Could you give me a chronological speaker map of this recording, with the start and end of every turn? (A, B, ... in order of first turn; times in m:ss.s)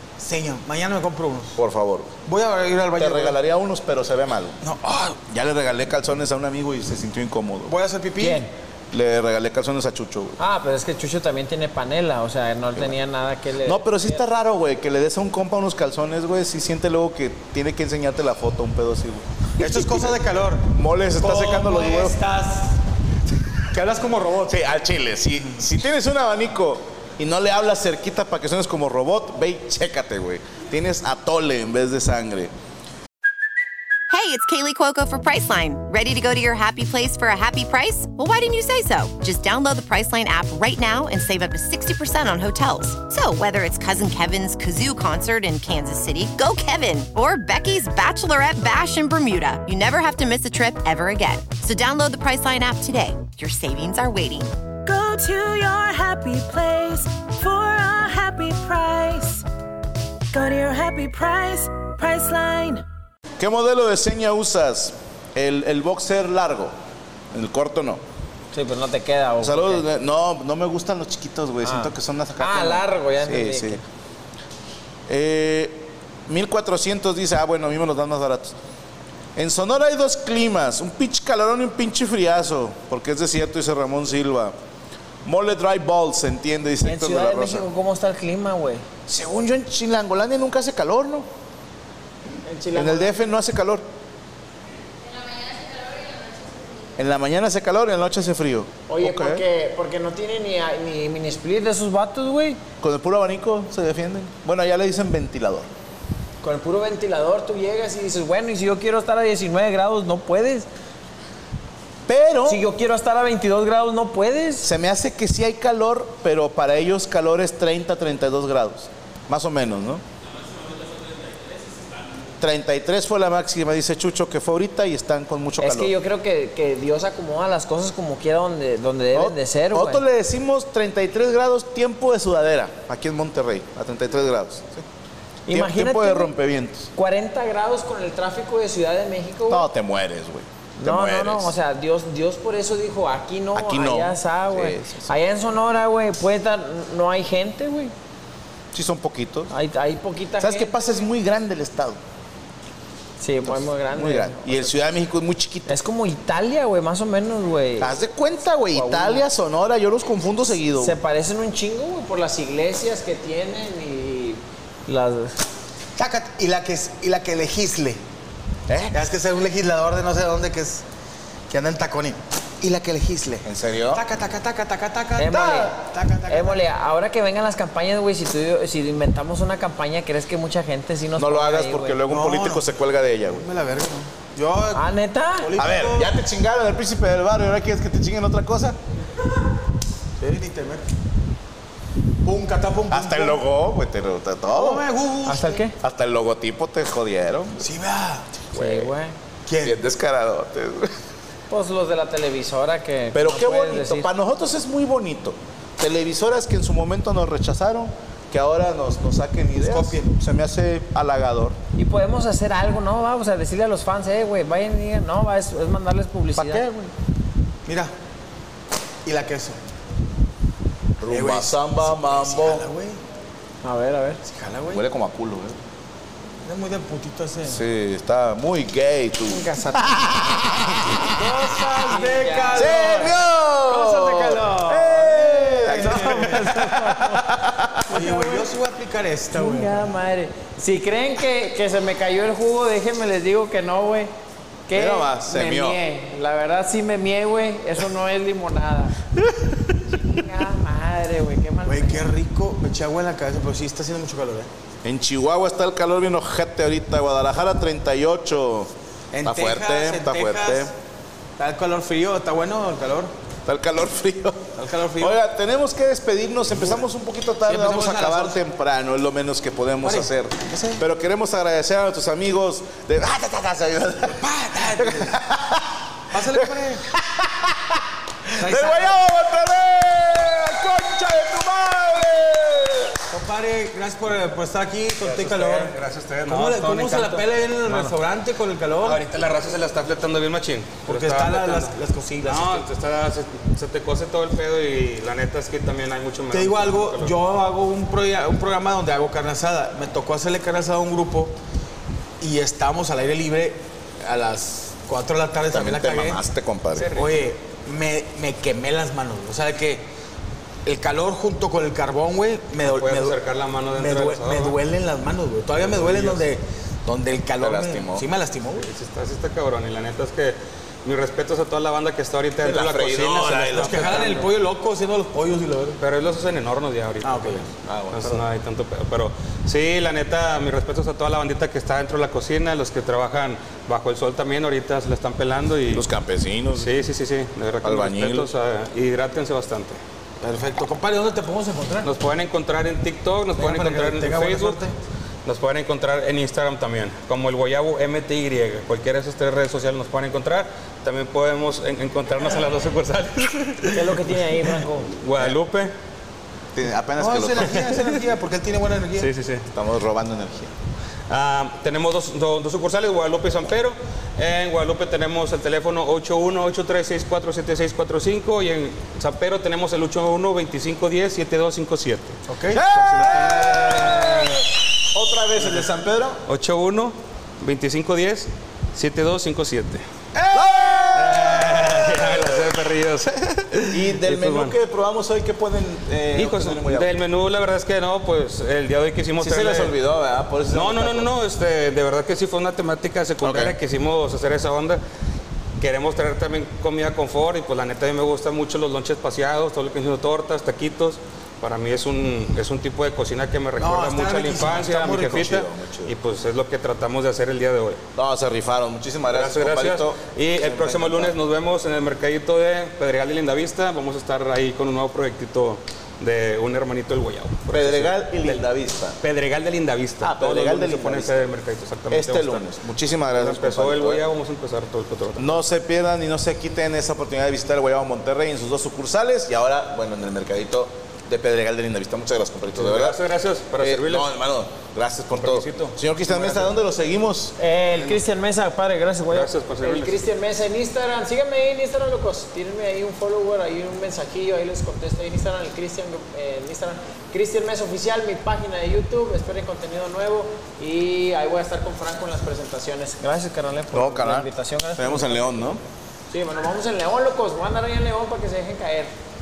0:00.2-0:01.6 A
0:01.6-0:02.1 B
0:02.2-0:03.3 A
0:03.0-0:04.6 B
0:04.6-0:05.2 A
0:05.3-0:07.7 B
0:07.7-0:08.4 A
0:08.2-0:08.5 C
0:08.9-0:10.4 B
0:10.4-0:14.2 C
0:13.6-0:19.2 B
0:19.6-0:22.8 A
0:20.7-0:22.2 B
0:23.7-0:24.6 A
0:24.5-0:32.5 B
0:34.1-0:54.5 D
0:54.9-0:56.0 E
0:57.8-0:58.4 E
0:59.0-0:59.3 E
1:00.3-1:00.6 E
1:01.4-1:02.1 E
1:03.4-1:06.7 B
1:07.3-1:08.0 B
1:08.5-1:09.8 C
1:09.4-1:13.8 B
1:11.6-1:13.8 C
1:15.1-1:18.6 B
1:19.4-1:24.5 B
1:25.2-1:27.7 B
1:26.8-1:28.8 C
1:29.1-1:31.3 B
1:32.4-1:33.1 C
1:32.7-1:33.8 B
1:37.0-1:39.4 B
1:38.9-1:42.6 C
1:42.8-1:45.7 B
1:46.4-1:50.7 C
1:52.1-1:52.6 B
1:52.4-1:54.7 C
1:54.6-2:00.0 B
2:02.4-2:05.9 B
2:05.6-2:10.0 C
2:09.1-2:14.8 B
2:15.5-2:16.3 C
2:15.5-2:16.9 B
2:16.9-2:19.7 C
2:19.5-2:21.5 B
2:20.8-2:27.9 C
2:23.5-2:25.2 B
2:28.7-2:29.5 B
2:29.5-2:30.7 C
2:30.4-2:32.0 B
2:33.2-2:34.8 C
2:33.4-2:35.8 B
2:35.7-2:37.9 C
2:37.8-2:41.0 B
2:38.7-2:39.3 C
2:40.7-2:45.4 C
2:46.0-2:48.0 A
2:48.7-2:49.0 B
2:48.9-2:50.8 A
2:51.5-2:56.6 A
2:53.4-2:54.0 B
2:55.2-3:02.0 C
3:01.2-3:03.4 B
3:02.1-3:02.6 A
3:03.3-3:04.9 A
3:04.7-3:05.5 C
3:05.4-3:06.1 A
3:05.6-3:08.8 B
3:10.2-3:10.9 A
3:12.2-3:13.4 A
3:12.9-3:14.8 B
3:14.5-3:15.6 A
3:15.3-3:15.7 C
3:15.8-3:17.7 B
3:17.6-3:18.4 A
3:18.5-3:19.1 C
3:18.5-3:18.9 B
3:19.5-3:19.8 A
3:19.6-3:20.9 B
3:21.5-3:24.1 C
3:23.1-3:31.6 B
3:29.6-3:30.1 A
3:31.8-3:36.9 C
3:36.3-3:36.7 B
3:37.6-3:37.9 A
3:39.0-3:39.6 A
3:41.0-3:42.6 B
3:41.1-3:43.0 A
3:43.6-3:44.2 C
3:44.2-3:44.8 A
3:44.7-3:45.6 B
3:46.4-3:47.6 A
3:47.4-3:51.3 B
3:49.3-3:50.4 C
3:51.2-3:53.1 C
3:51.2-3:53.1 A
3:52.5-3:57.8 B
3:53.8-3:57.2 C
3:53.9-3:54.4 A
3:55.7-3:56.4 A
3:57.9-3:59.9 A
3:57.9-3:58.5 C
3:59.3-4:04.1 C
4:04.7-4:09.0 C
4:04.7-4:05.8 B
4:09.9-4:12.1 C
4:11.6-4:14.5 A
4:14.8-4:18.7 B
4:19.1-4:20.7 A
4:19.2-4:20.7 B
4:21.4-4:23.1 A
4:23.4-4:35.8 B
4:24.6-4:25.2 A
4:26.5-4:26.8 A
4:27.4-4:28.4 A
4:29.8-4:30.8 A
4:34.2-4:35.2 A
4:36.1-4:36.8 A
4:36.3-4:43.0 B
4:38.4-4:39.0 A
4:43.1-4:45.7 A
4:45.0-4:48.0 F
4:46.3-4:49.0 A
4:48.8-4:57.2 F
4:50.8-4:52.7 A
4:56.3-5:01.3 A
5:02.2-5:06.2 A
5:05.5-5:06.9 B
5:06.7-5:07.3 F
5:07.0-5:09.9 A
5:10.6-5:13.2 A
5:12.6-5:14.6 F
5:13.7-5:18.7 A
5:15.5-5:16.2 F
5:17.4-5:18.0 B
5:18.6-5:24.3 F
5:22.4-5:24.0 B
5:23.5-5:25.8 A
5:25.8-5:35.9 F
5:27.0-5:28.2 A
5:35.7-5:36.7 B
5:36.5-5:39.8 F
5:37.6-5:38.3 B
5:40.2-5:41.9 A
5:41.8-5:44.6 F
5:43.3-5:44.7 A
5:45.2-5:54.0 F
5:53.7-5:54.8 C
5:54.9-5:55.7 F
5:56.5-5:57.6 B
5:57.0-5:59.1 A
5:59.0-5:59.5 F
5:59.5-6:00.5 B
6:01.1-6:12.2 F
6:12.3-6:12.6 A
6:12.5-6:16.2 B
6:12.7-6:14.4 F
6:16.2-6:19.8 F
6:20.1-6:22.5 B
6:20.9-6:24.6 F
6:23.7-6:26.9 B
6:26.1-6:29.8 F
6:29.2-6:31.1 B
6:30.5-6:34.8 F
6:33.2-6:33.6 B
6:35.6-6:47.8 F
6:43.6-6:45.3 A
6:45.1-6:45.9 B
6:47.9-6:51.2 B
6:49.1-6:58.4 F
6:57.5-6:59.0 B
6:59.0-7:05.4 F
7:00.0-7:01.2 B
7:01.9-7:04.0 B
7:05.2-7:13.0 B
7:12.5-7:14.1 F
7:13.6-7:17.3 B
7:15.1-7:16.5 F
7:17.4-7:35.3 C
7:19.1-7:20.0 F
7:33.7-7:35.6 B
7:36.1-7:38.9 C